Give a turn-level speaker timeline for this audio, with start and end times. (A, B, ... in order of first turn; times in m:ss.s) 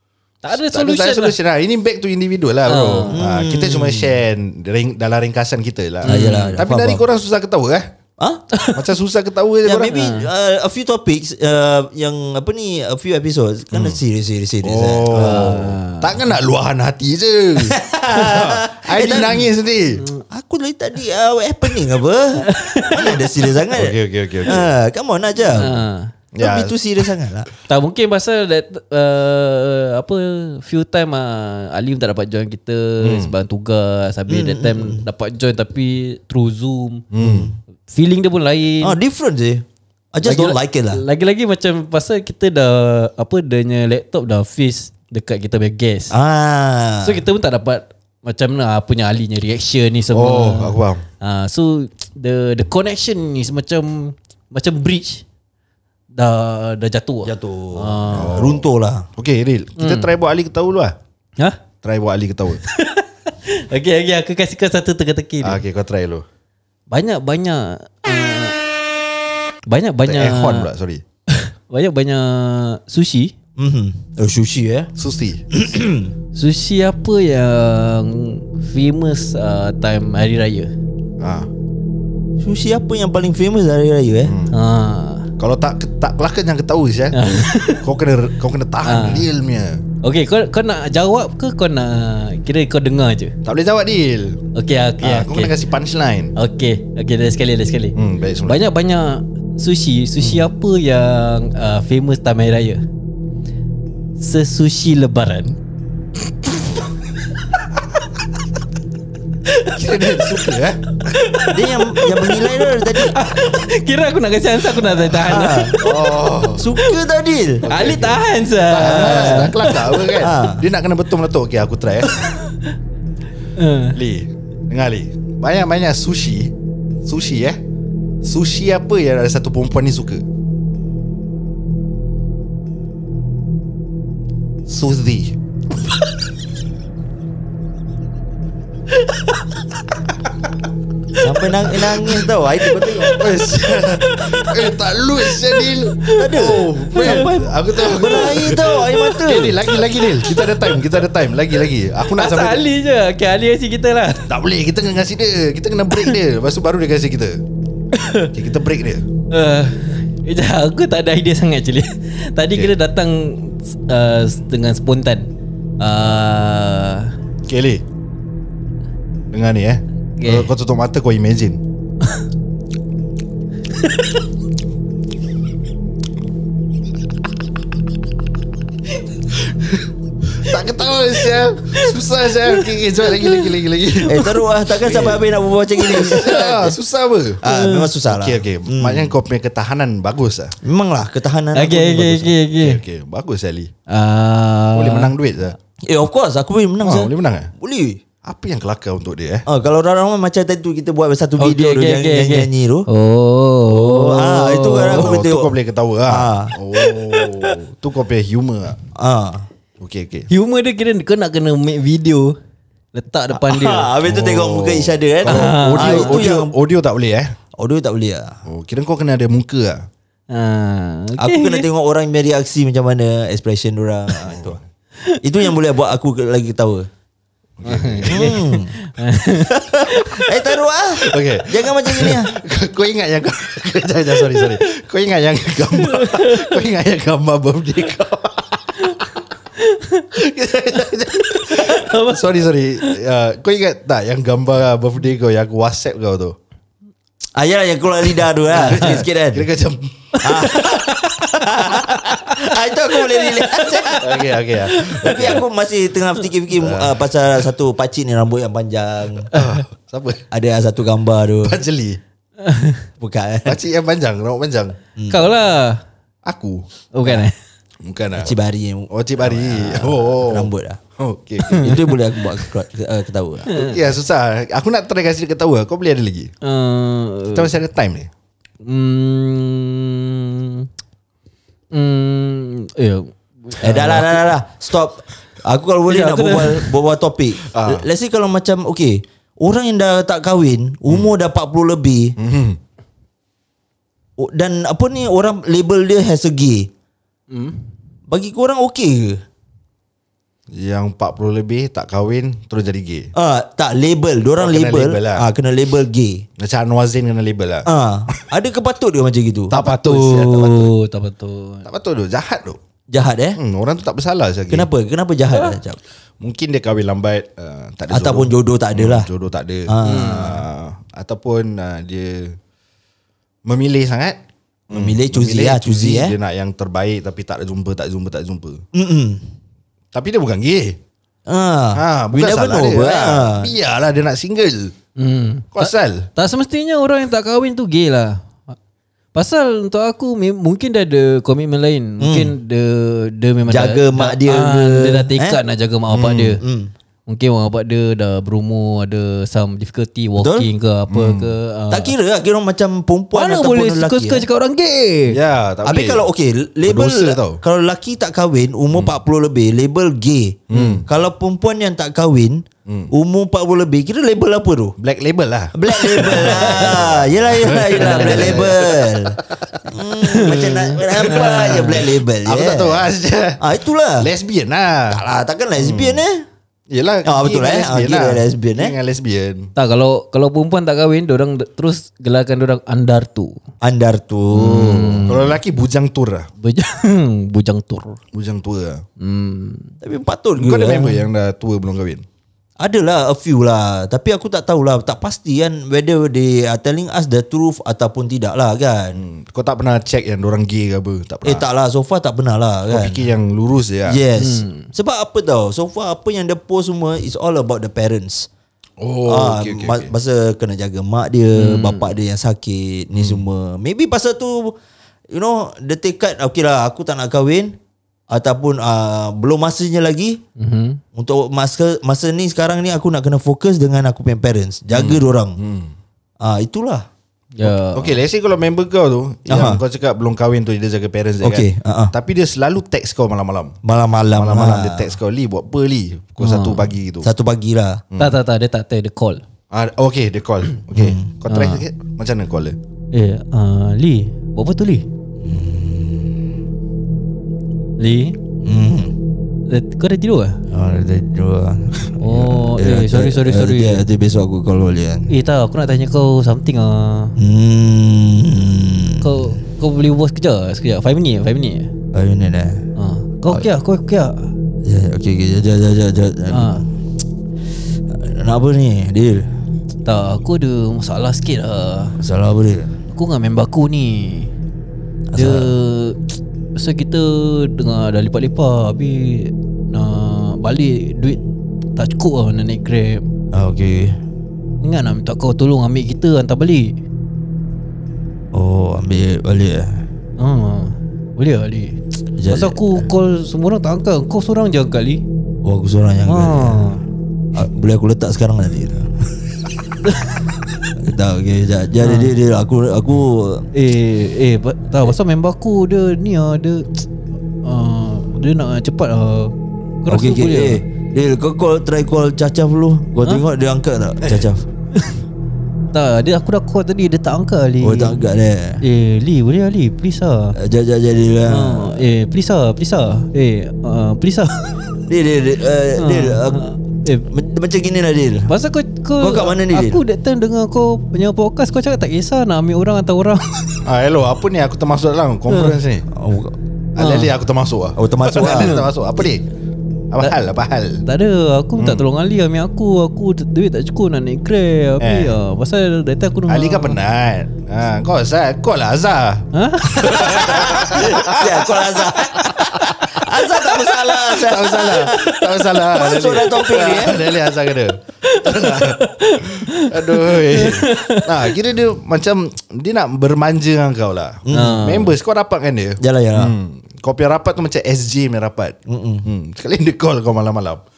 0:00.4-0:01.4 A
0:00.5-0:07.9 B
0:02.7-0:03.2 A
0:03.1-0:04.1 C
0:06.0-0:07.0 C
0:06.1-0:06.6 A
0:08.7-0:10.0 B
0:09.6-0:15.7 C
0:09.9-0:10.3 A
0:13.7-0:14.0 B
0:14.6-0:20.0 B
0:15.2-0:16.3 A
0:17.6-0:19.4 C
0:20.0-0:20.2 A
0:20.3-0:25.8 C
0:22.5-0:23.5 A
0:23.7-0:24.7 B
0:25.5-0:26.1 A
0:26.3-0:26.8 B
0:26.4-0:27.5 C
0:27.7-0:37.1 A
0:33.0-0:33.3 B
0:34.3-0:35.1 C
0:37.1-0:37.5 B
0:37.2-0:37.6 C
0:37.9-0:39.0 A
0:38.8-0:41.0 C
0:40.2-0:46.2 A
0:46.1-0:47.2 C
0:47.0-0:55.2 A
0:50.1-0:51.0 B
0:56.1-0:58.4 A
0:57.2-0:59.1 C
0:58.1-1:01.0 B
0:59.8-1:00.1 A
1:01.8-1:02.6 B
1:02.6-1:05.6 A
1:05.4-1:06.2 B
1:06.9-1:08.6 A
1:09.7-1:10.7 A
1:10.1-1:11.0 B
1:11.3-1:13.3 A
1:13.6-1:14.9 C
1:15.0-1:15.4 B
1:15.5-1:16.1 C
1:16.4-1:20.7 A
1:21.2-1:21.5 B
1:22.4-1:24.3 C
1:24.2-1:24.5 B
1:24.5-1:25.3 A
1:25.4-1:29.8 B
1:27.2-1:27.8 A
1:28.8-1:29.3 A
1:30.0-1:33.3 A
1:33.4-1:34.4 B
1:34.6-1:35.5 A
1:35.0-1:36.3 B
1:36.4-1:42.8 A
1:38.0-1:38.6 B
1:44.2-1:45.6 A
1:49.5-1:55.9 A
1:49.7-1:50.8 B
1:51.5-1:53.2 C
1:55.2-1:55.8 C
1:55.8-1:56.6 B
1:56.6-1:57.6 C
1:57.6-1:58.2 B
1:57.7-2:00.0 A
1:58.7-2:02.3 B
1:58.8-2:00.6 C
2:02.1-2:02.8 A
2:03.6-2:04.0 A
2:04.0-2:06.5 B
2:07.0-2:07.6 B
2:08.2-2:10.2 B
2:14.7-2:15.4 B
2:21.2-2:23.2 C
2:23.0-2:32.6 B
2:23.9-2:24.7 A
2:25.5-2:27.3 A
2:26.2-2:29.6 C
2:27.9-2:29.1 A
2:30.2-2:30.8 A
2:32.1-2:34.3 A
2:34.3-2:37.4 B
2:37.9-2:38.3 A
2:38.3-2:39.0 B
2:39.3-2:47.1 A
2:47.5-2:47.8 B
2:49.3-2:51.6 B
2:50.2-2:50.5 A
2:53.8-2:54.1 A
2:59.5-3:04.2 B
3:02.6-3:03.4 A
3:04.0-3:06.8 C
3:04.7-3:05.3 B
3:05.9-3:07.4 B
3:07.4-3:09.1 C
3:07.5-3:07.9 A
3:08.1-3:10.6 B
3:10.6-3:12.4 C
3:11.5-3:12.8 A
3:12.6-3:13.7 B
3:13.9-3:15.1 A
3:14.8-3:15.6 B
3:15.8-3:18.0 C
3:16.8-3:17.5 B
3:18.2-3:19.5 B
3:19.5-3:22.9 C
3:21.4-3:25.2 A
3:23.7-3:25.5 C
3:24.9-3:28.8 B
3:26.1-3:26.5 C
3:26.8-3:27.6 A
3:29.0-3:29.4 C
3:29.8-3:30.3 B
3:30.3-3:32.4 A
3:32.9-3:33.9 A
3:33.3-3:36.5 C
3:34.0-3:37.3 B
3:35.3-3:36.2 A
3:37.6-3:38.4 C
3:38.5-3:39.8 B
3:40.3-3:41.7 A
3:41.2-3:44.6 C
3:44.3-3:44.6 B
3:45.2-3:46.9 C
3:47.6-3:48.4 B
3:47.6-3:50.4 A
3:48.1-3:48.7 C
3:49.5-3:52.4 C
3:51.0-3:59.1 B
3:55.7-3:56.6 A
3:58.8-4:00.1 A
4:00.2-4:06.4 B
4:01.2-4:02.9 A
4:07.4-4:09.5 C
4:08.5-4:09.0 A
4:08.6-4:10.1 B
4:10.2-4:14.0 A
4:10.2-4:14.2 C
4:14.0-4:15.4 B
4:14.7-4:15.4 A
4:15.0-4:19.3 C
4:16.5-4:17.0 B
4:19.3-4:20.2 B
4:20.3-4:21.6 C
4:21.4-4:22.0 B
4:22.4-4:22.8 A
4:23.0-4:23.6 C
4:23.4-4:24.8 B
4:25.0-4:25.3 C
4:25.1-4:25.8 A
4:26.2-4:27.2 B
4:26.9-4:27.4 A
4:27.8-4:28.4 B
4:28.2-4:30.8 C
4:28.9-4:31.8 B
4:31.4-4:31.8 A
4:31.5-4:33.5 C
4:33.5-4:33.8 A
4:33.6-4:36.3 B
4:36.4-4:37.5 A
4:37.3-4:38.1 B
4:38.6-4:40.7 A
4:41.7-4:44.2 A
4:43.6-4:52.2 C
4:45.9-4:46.7 A
4:47.5-4:47.9 B
4:52.2-4:52.6 B
4:54.2-4:56.7 C
4:57.3-4:57.6 A
4:58.1-4:59.2 C
5:00.5-5:03.1 B
5:03.2-5:06.2 C
5:04.4-5:05.2 B
5:06.4-5:07.7 B
5:07.6-5:09.5 C
5:09.5-5:10.7 B
5:09.5-5:11.7 A
5:11.7-5:12.6 B
5:12.9-5:13.4 C
5:13.4-5:14.7 B
5:14.5-5:15.8 C
5:16.2-5:22.4 B
5:17.9-5:19.1 C
5:19.7-5:20.4 C
5:19.8-5:20.4 A
5:23.4-5:24.2 B
5:24.7-5:26.2 C
5:24.7-5:28.6 B
5:28.7-5:29.3 C
5:29.9-5:30.8 B
5:31.3-5:33.5 C
5:31.8-5:34.7 B
5:35.0-5:38.2 A
5:35.6-5:36.1 B
5:39.2-5:46.4 A
5:42.0-5:42.3 C
5:43.5-5:45.4 C
5:45.9-5:46.4 B
5:46.4-5:46.7 C
5:47.1-5:51.9 A
5:50.2-5:50.5 C
5:50.9-5:51.3 B
5:51.7-5:54.3 C
5:53.1-5:55.2 A
5:55.1-5:56.0 B
5:55.6-6:04.8 C
5:56.7-5:57.4 B
6:00.5-6:00.9 B
6:00.5-6:00.8 A
6:02.7-6:02.9 B
6:04.8-6:09.2 B
6:05.5-6:12.9 C
6:06.0-6:06.7 A
6:07.8-6:08.5 A
6:10.0-6:11.8 A
6:10.9-6:13.5 B
6:13.4-6:14.1 C
6:14.0-6:15.0 B
6:14.9-6:16.3 C
6:15.6-6:16.0 B
6:16.7-6:19.5 B
6:17.0-6:18.8 C
6:19.6-6:23.4 A
6:23.6-6:25.1 C
6:24.3-6:25.4 A
6:25.1-6:26.3 B
6:26.4-6:28.0 A
6:28.1-6:28.8 B
6:29.0-6:29.7 A
6:29.8-6:31.0 C
6:30.4-6:32.0 B
6:32.6-6:39.0 C
6:39.0-6:41.5 B
6:41.2-6:43.1 C
6:42.7-6:44.0 B
6:43.9-6:48.3 C
6:44.2-6:44.7 A
6:48.8-6:49.9 B
6:49.1-6:54.6 C
6:51.4-6:51.9 A
6:53.0-6:53.2 B
6:55.1-6:57.6 C
6:58.1-7:00.2 C
7:00.4-7:00.8 A
7:00.9-7:05.4 C
7:04.7-7:05.7 B
7:06.2-7:06.9 C
7:07.4-7:08.0 A
7:07.7-7:13.6 B
7:09.3-7:09.6 C
7:11.2-7:11.9 C
7:13.6-7:14.9 C
7:14.2-7:17.1 B
7:16.2-7:16.7 A
7:17.0-7:17.8 C
7:17.9-7:18.2 B
7:18.0-7:19.2 A
7:19.5-7:22.6 B
7:20.7-7:21.1 C
7:21.3-7:21.6 A
7:22.9-7:24.9 A
7:25.2-7:26.3 C
7:27.8-7:28.2 A
7:28.4-7:28.9 C
7:29.5-7:30.4 A
7:30.5-7:35.1 C
7:32.0-7:33.8 A
7:35.1-7:37.2 A
7:37.2-7:39.3 C
7:39.0-7:41.7 A
7:41.9-7:42.7 C
7:42.8-7:44.3 A
7:44.6-7:46.7 C
7:46.3-7:46.6 A
7:47.9-7:49.3 C
7:49.8-7:52.0 A
7:52.0-7:52.7 C
7:52.9-7:54.3 A
7:55.1-7:55.5 C
7:55.2-8:01.2 A
8:01.8-8:03.0 A
8:03.3-8:04.0 C
8:04.6-8:06.8 A
8:08.3-8:09.8 C
8:10.2-8:15.0 A
8:12.2-8:12.8 C
8:15.4-8:16.8 C
8:16.1-8:16.8 A
8:17.3-8:19.5 C
8:19.9-8:20.1 A
8:20.7-8:23.5 C
8:21.8-8:22.1 A
8:23.5-8:26.8 A
8:27.4-8:30.6 A
8:29.9-8:34.5 C
8:35.7-8:38.0 A
8:37.6-8:38.6 C
8:38.6-8:40.4 A
8:40.4-8:41.8 C
8:41.3-8:44.5 A
8:44.9-8:46.4 C
8:45.8-8:47.1 A
8:47.1-8:48.3 C
8:48.3-8:53.4 A
8:49.0-8:49.8 C
8:53.6-8:55.9 B
8:55.3-8:55.6 A
8:55.9-8:56.4 C
8:56.8-8:59.3 B
8:56.8-8:57.1 A
8:57.8-8:58.6 C
8:58.2-8:58.6 A
8:59.9-9:00.8 B
9:00.8-9:06.8 A
9:04.8-9:05.2 B
9:06.3-9:11.5 B
9:09.3-9:10.6 A
9:09.9-9:17.1 C
9:14.0-9:30.6 B
9:18.1-9:21.3 A
9:24.3-9:24.7 C
9:24.3-9:24.9 A
9:25.8-9:26.4 C
9:28.7-9:29.1 C